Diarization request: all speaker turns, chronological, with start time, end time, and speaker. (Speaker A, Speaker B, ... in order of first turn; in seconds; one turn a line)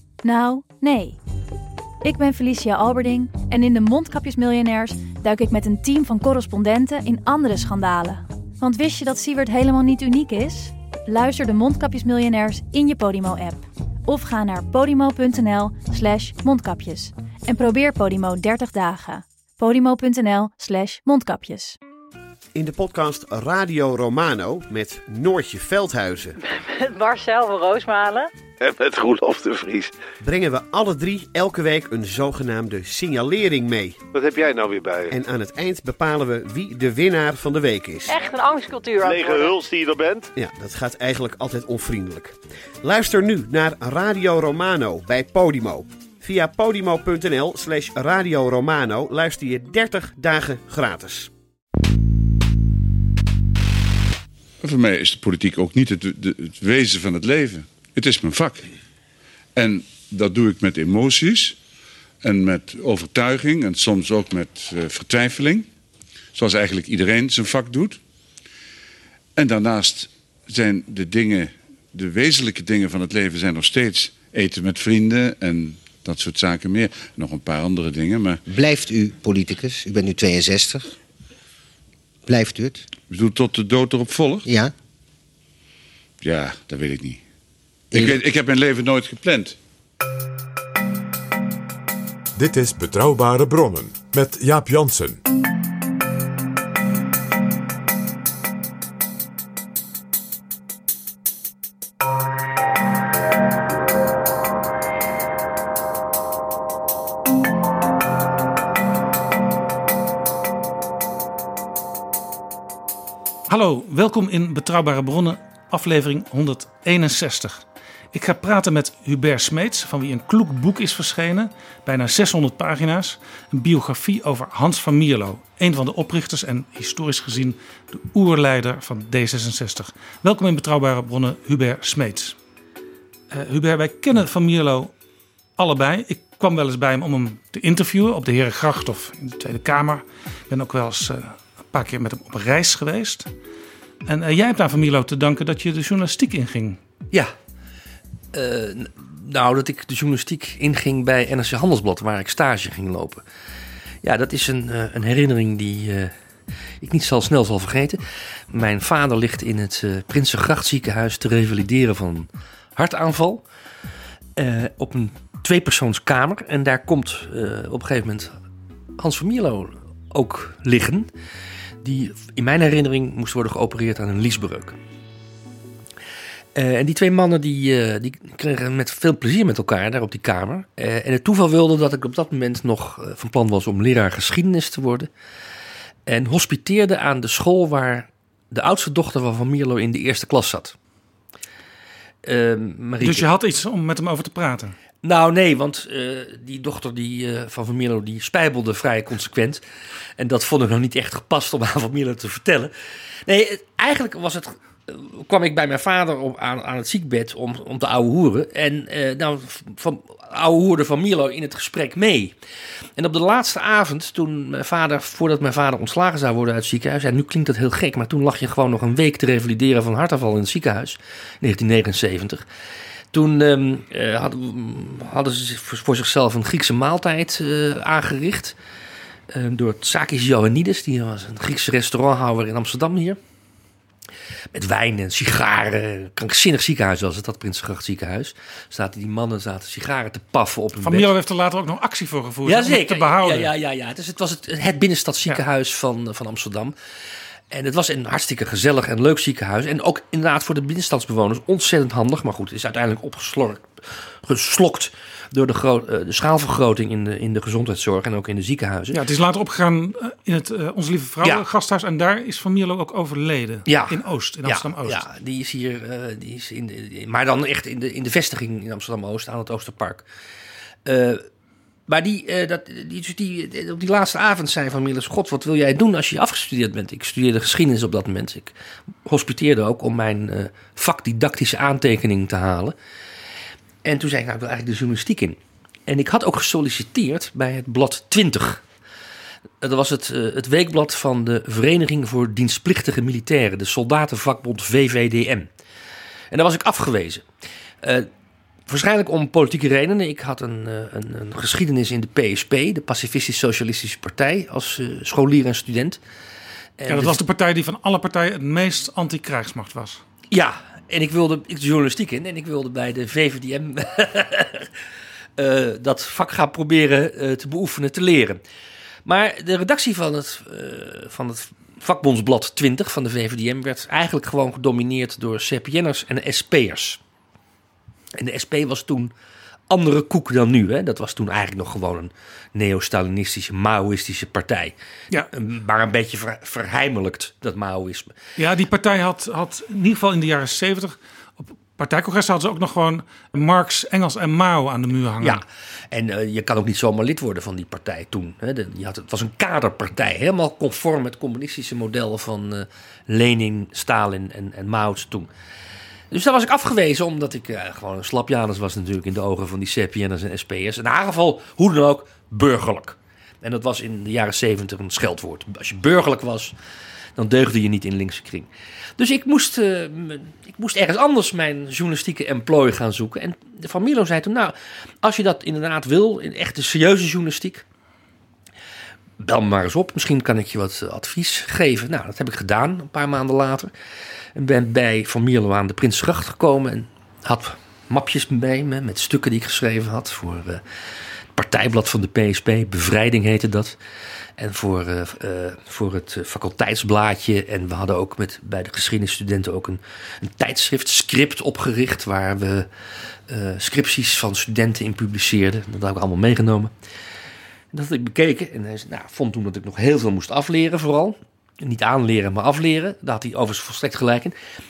Speaker A: 0.2-1.2
Speaker A: 2.0-21.8
Speaker B: 22.5-26.4
Speaker C: 26.4-28.3
Speaker D: 28.6-29.9
Speaker B: 30.2-34.0
Speaker D: 34.1-35.2
Speaker B: 35.1-38.1
Speaker C: 38.1-39.6
Speaker D: 39.0-40.3
Speaker B: 40.4-51.3
Speaker E: 54.6-58.7
Speaker E: 59.5-61.5
Speaker E: 62.2-65.7
Speaker E: 66.3-68.0
Speaker E: 69.3-78.4
Speaker F: 78.5-80.9
Speaker F: 82.3-82.9
Speaker E: 83.1-84.5
Speaker F: 84.4-84.7
Speaker E: 86.2-87.2
Speaker F: 87.9-88.2
Speaker E: 87.9-89.5
Speaker G: 92.4-95.2
Speaker H: 113.5-132.3
Speaker H: 133.3-134.9
Speaker H: 135.6-143.3
Speaker H: 144.1-146.8
Speaker I: 148.3-153.2
Speaker I: 154.0-156.1
Speaker I: 156.8-163.4
Speaker I: 164.3-168.3
Speaker I: 169.0-171.1
Speaker I: 171.8-174.8
Speaker I: 176.5-185.1
Speaker I: 186.1-190.7
Speaker I: 192.2-193.3
Speaker H: 193.0-194.8
Speaker I: 195.0-199.6
Speaker I: 200.2-202.7
Speaker I: 203.2-212.3
Speaker I: 213.0-222.4
Speaker I: 223.1-228.6
Speaker I: 229.3-233.2
Speaker I: 234.5-241.1
Speaker H: 240.8-243.5
Speaker I: 242.4-246.7
Speaker I: 247.5-253.7
Speaker I: 254.2-259.0
Speaker H: 258.9-265.0
Speaker I: 263.6-270.1
Speaker I: 270.8-271.3
Speaker I: 271.9-278.5
Speaker I: 279.0-282.7
Speaker I: 283.8-288.6
Speaker I: 289.6-295.5
Speaker I: 296.3-297.3
Speaker I: 297.8-298.1
Speaker I: 298.7-306.0
Speaker I: 306.8-307.2
Speaker H: 306.9-310.0
Speaker I: 310.3-314.7
Speaker I: 315.4-318.4
Speaker I: 319.0-327.0
Speaker I: 328.1-329.1
Speaker I: 329.7-338.1
Speaker H: 338.4-345.4
Speaker I: 345.2-355.3
Speaker I: 356.1-366.5
Speaker I: 367.1-377.6
Speaker I: 379.2-383.7
Speaker I: 384.3-390.6
Speaker I: 391.3-393.8
Speaker I: 394.4-402.7
Speaker I: 403.3-406.7
Speaker I: 407.7-414.3